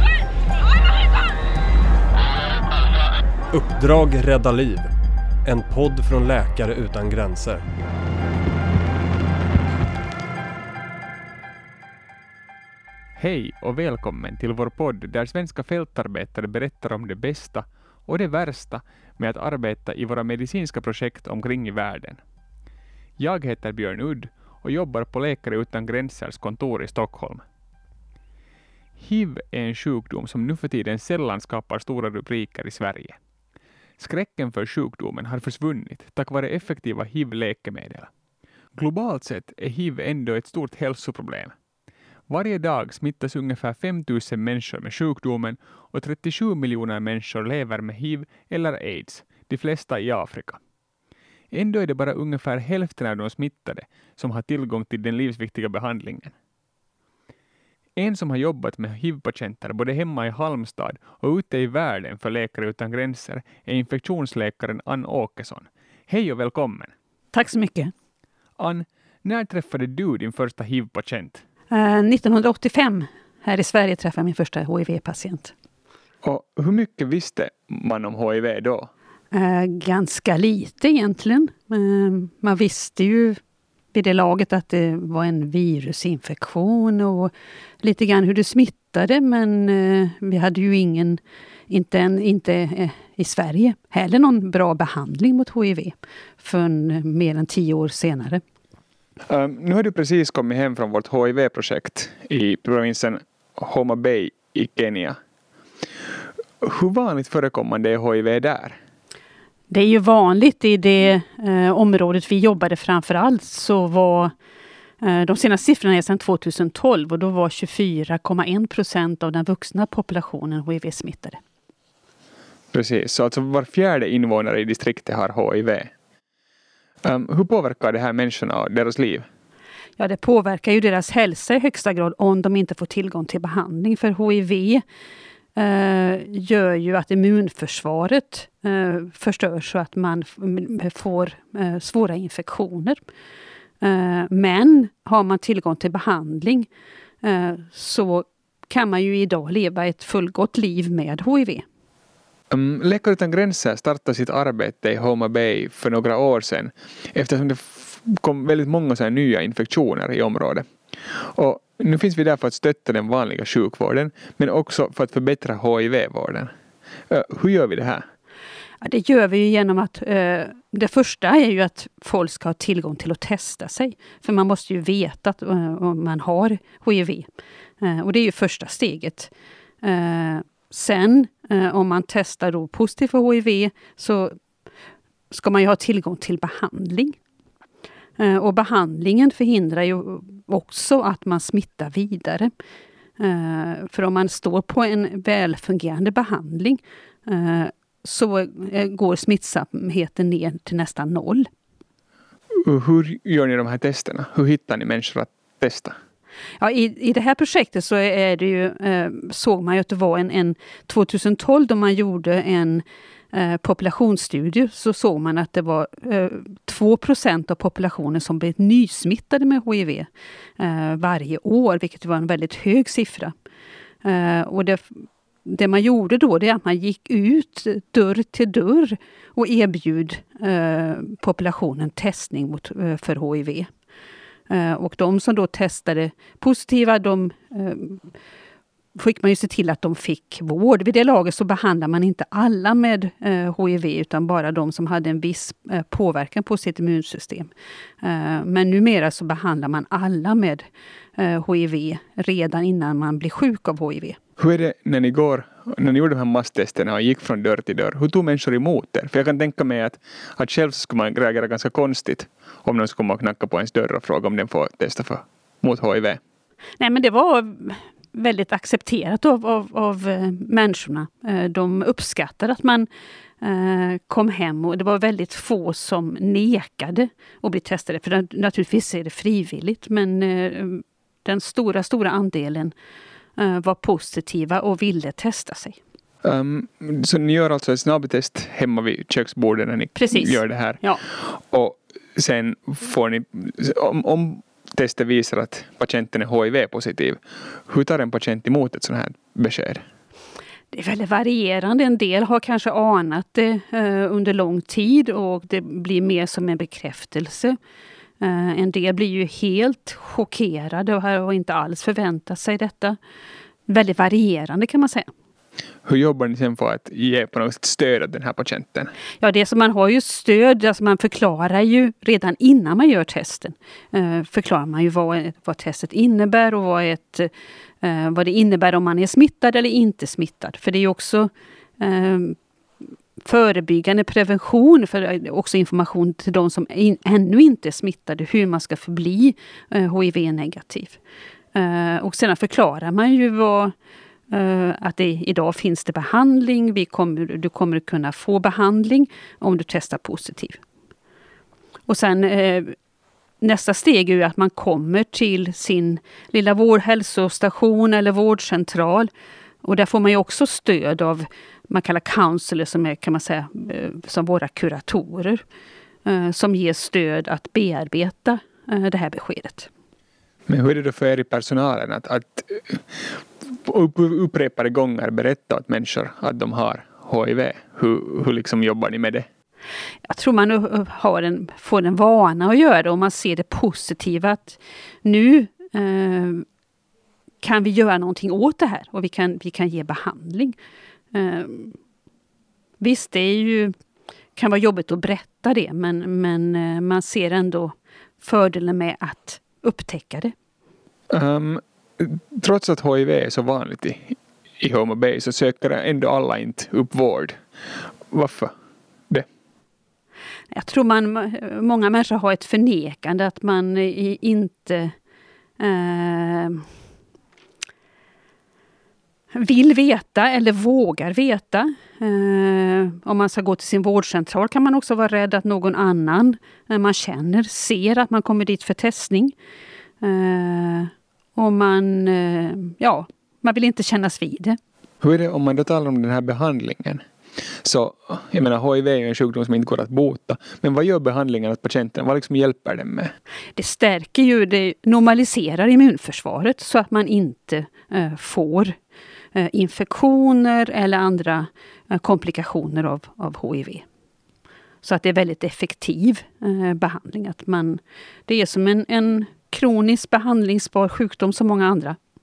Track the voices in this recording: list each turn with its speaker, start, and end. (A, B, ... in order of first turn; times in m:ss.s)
0:03.5-0:04.9 A
0:05.4-0:07.6 A
0:13.2-0:22.2 B
0:23.2-0:27.4 B
0:29.0-0:33.2 B
0:34.0-0:38.1 B
0:38.8-0:41.5 B
0:42.3-0:50.6 B
0:51.5-0:56.3 B
0:58.0-1:06.9 B
1:07.3-1:07.9 C
1:08.6-1:11.4 B
1:11.7-1:15.5 C
1:16.2-1:18.9 B
1:19.3-1:23.4 C
1:23.9-1:38.4 C
1:39.3-1:45.2 B
1:46.6-1:48.8 B
1:49.7-1:54.3 C
1:55.0-2:01.4 C
2:02.7-2:05.9 B
2:07.0-2:09.3 B
2:10.0-2:14.8 C
2:15.6-2:23.0 C
2:23.8-2:26.7 C
2:27.2-2:31.6 C
2:32.5-2:46.5 B
2:47.1-2:48.0 B
2:48.8-2:57.3 C
2:57.8-2:59.3 C
2:59.8-3:04.4 C
3:05.3-3:07.2 C
3:08.2-3:12.5 C
3:13.2-3:21.5 C
3:22.6-3:26.0 B
3:26.6-3:43.3 C
3:44.0-3:53.7 C
3:54.5-3:58.0 C
3:59.0-4:07.5 C
4:08.0-4:10.6 C
4:11.2-4:14.2 C
4:14.4-4:26.2 B
4:26.8-4:32.9 C
4:33.4-4:42.7 C
4:43.4-4:45.8 C
4:46.2-4:59.8 B
4:50.0-4:51.0 C
5:00.7-5:07.6 C
5:08.2-5:13.0 C
5:13.7-5:15.1 C
5:15.8-5:18.9 B
5:19.2-5:27.3 C
5:27.8-5:32.4 C
5:33.2-5:41.0 C
5:41.5-5:43.7 C
5:44.3-5:50.6 C
5:51.9-5:52.8 C
5:53.4-5:59.1 C
5:59.6-6:05.4 C
6:06.1-6:09.7 C
6:10.5-6:19.3 B
6:20.1-6:26.5 C
6:27.4-6:30.6 C
6:31.1-6:31.8 C
6:32.8-6:33.8 C
6:34.4-6:40.3 C
6:41.1-6:47.4 B
6:48.1-6:48.5 B
6:50.5-6:55.0 C
6:55.6-6:56.7 C
6:59.3-7:09.3 C
7:10.0-7:14.6 C
7:15.0-7:17.0 B
7:17.6-7:23.1 B
7:23.6-7:28.8 C
7:29.3-7:33.8 C
7:34.8-7:42.0 C